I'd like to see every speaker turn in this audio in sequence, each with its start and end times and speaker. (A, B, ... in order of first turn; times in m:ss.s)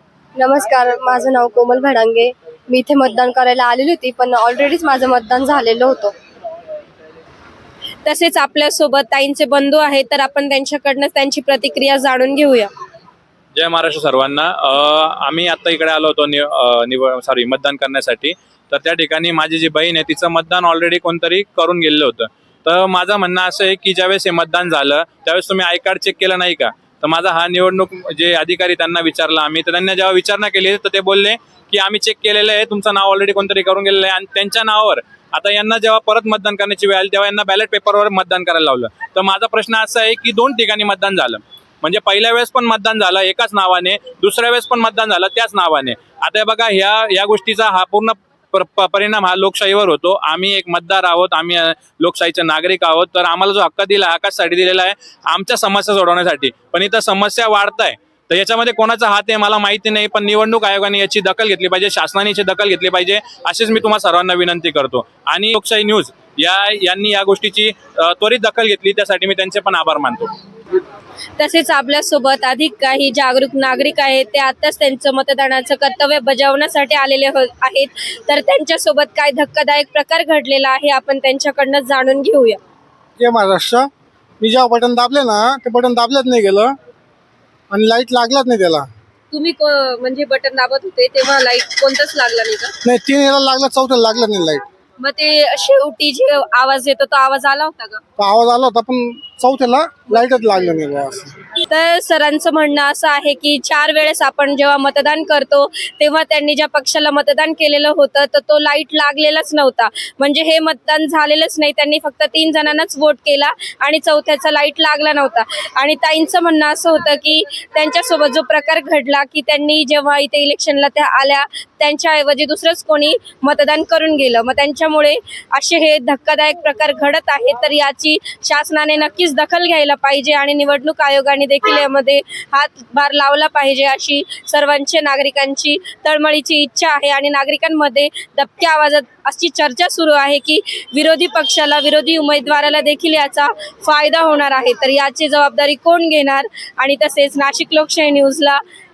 0:00.4-0:06.1 A
0:08.0-0:12.7 B
0:13.5-1:10.3 C
1:11.4-1:22.6 B
1:23.2-1:23.9 D
1:24.4-1:26.7 D
1:27.7-1:28.9 D
1:29.3-1:32.7 B
1:32.8-1:34.6 D
1:35.0-1:38.0 B
1:38.2-1:41.3 D
1:41.6-2:28.6 B